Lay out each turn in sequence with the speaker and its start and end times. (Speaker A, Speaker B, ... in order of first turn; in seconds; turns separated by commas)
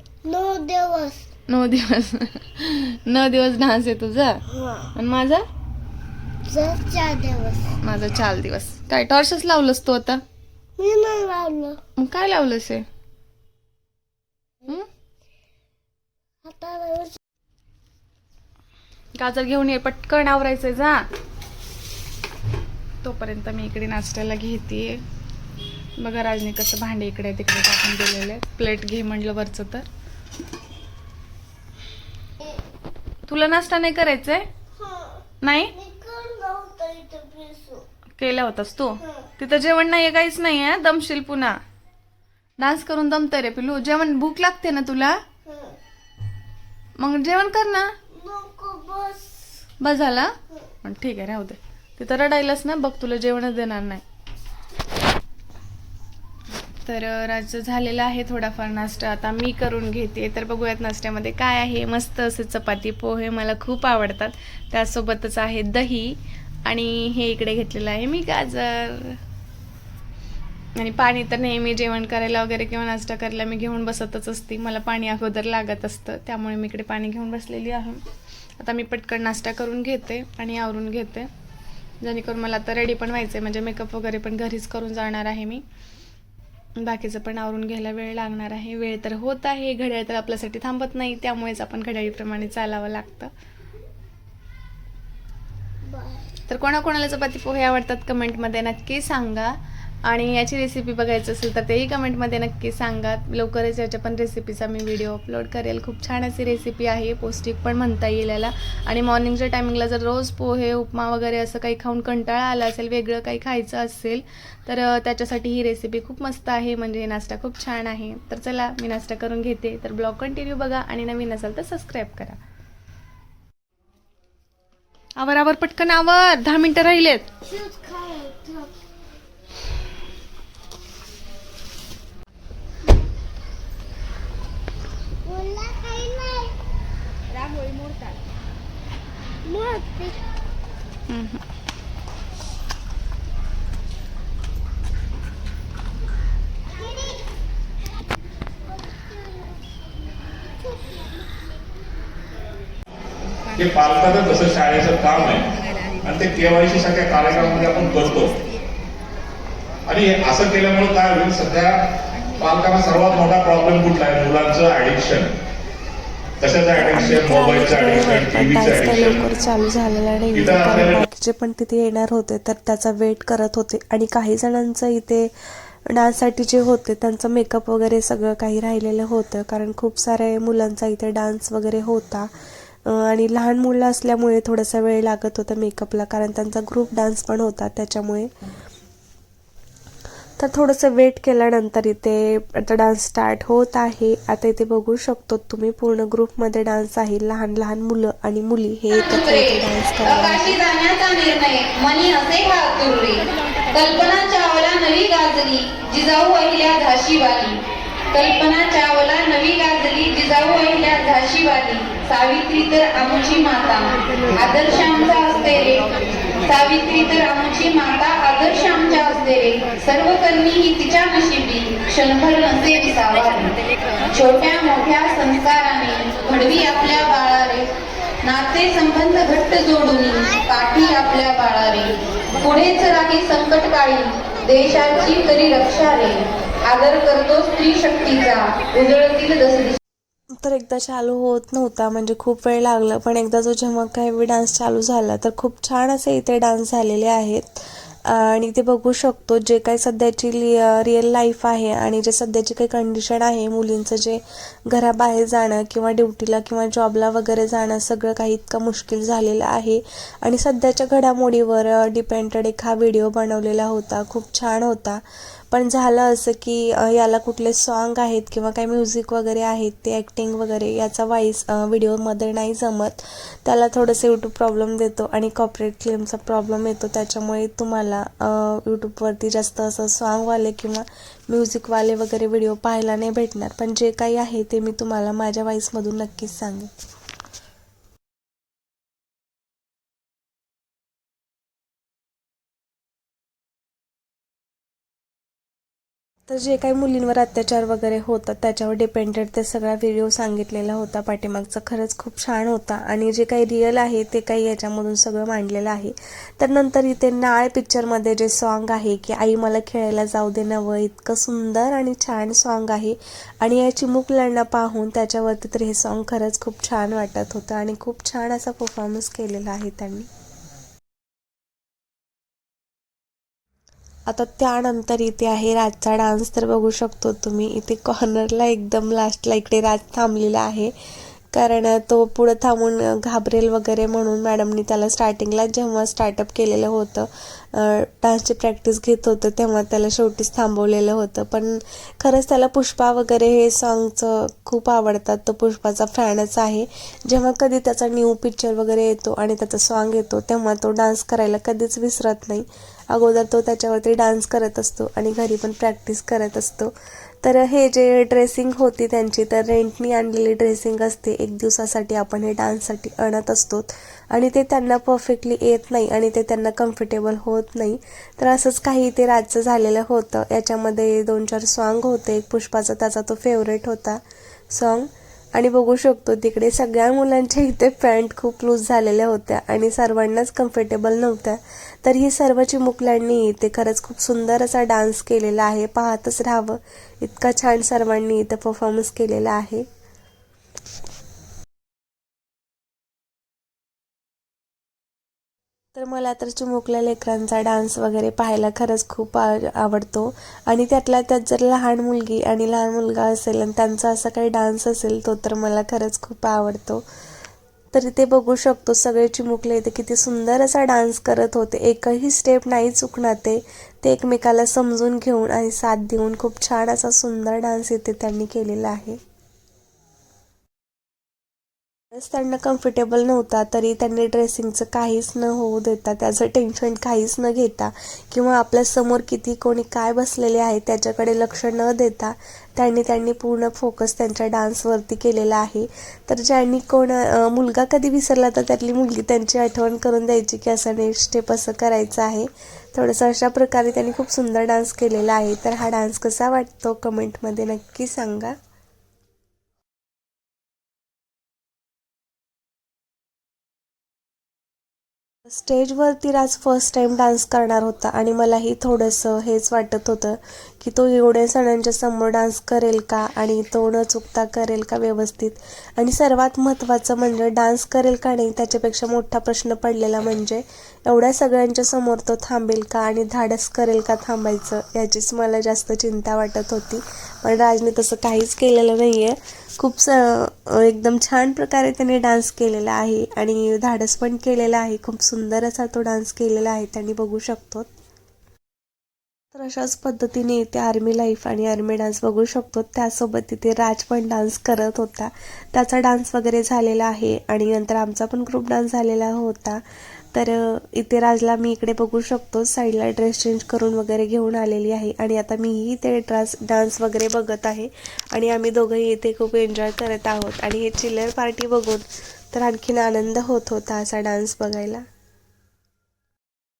Speaker A: 0.2-1.2, Speaker B: 1.5-4.4, Speaker A: 4.5-4.9, Speaker B: 4.9-5.4, Speaker A: 6.5-7.7, Speaker B: 7.8-10.2, Speaker A: 10.8-11.8, Speaker B: 12.0-12.8, Speaker A: 16.4-17.2, Speaker B: 19.1-21.1, Speaker B: 23.0-25.0, Speaker B: 26.0-29.9, Speaker B: 33.3-34.5, Speaker A: 34.8-37.9, Speaker B: 35.4-35.7, Speaker B: 38.2-41.6, Speaker A: 39.0-39.3, Speaker B: 42.6-45.2, Speaker A: 45.5-45.8, Speaker B: 47.0-47.9, Speaker A: 48.1-49.6, Speaker B: 49.8-54.0, Speaker B: 56.8-69.2, Speaker B: 70.8-78.0, Speaker B: 78.6-81.3, Speaker B: 82.0-85.6, Speaker B: 86.8-93.3, Speaker A: 95.8-96.3, Speaker B: 96.5-122.4, Speaker B: 125.2-127.3, Speaker A: 127.4-128.7, Speaker A: 135.2-136.5, Speaker A: 139.4-140.2, Speaker B: 141.1-141.4, Speaker A: 146.7-147.3, Speaker A: 148.8-149.7, Speaker A: 150.6-151.2, Speaker C: 153.6-155.5, Speaker C: 156.0-158.4, Speaker C: 159.9-161.8, Speaker C: 162.4-165.3, Speaker C: 166.4-169.4, Speaker D: 166.7-175.3, Speaker C: 170.3-171.0, Speaker D: 175.8-182.3, Speaker D: 182.8-188.3, Speaker D: 190.4-200.6, Speaker E: 198.9-207.6, Speaker E: 208.1-239.8, Speaker D: 240.4-286.7, Speaker D: 296.3-320.1, Speaker D: 324.1-330.7, Speaker D: 331.3-389.6, Speaker D: 395.7-406.8, Speaker D: 407.7-419.0, Speaker D: 421.9-448.3, Speaker D: 455.2-487.7, Speaker D: 489.3-499.6, Speaker D: 500.1-514.8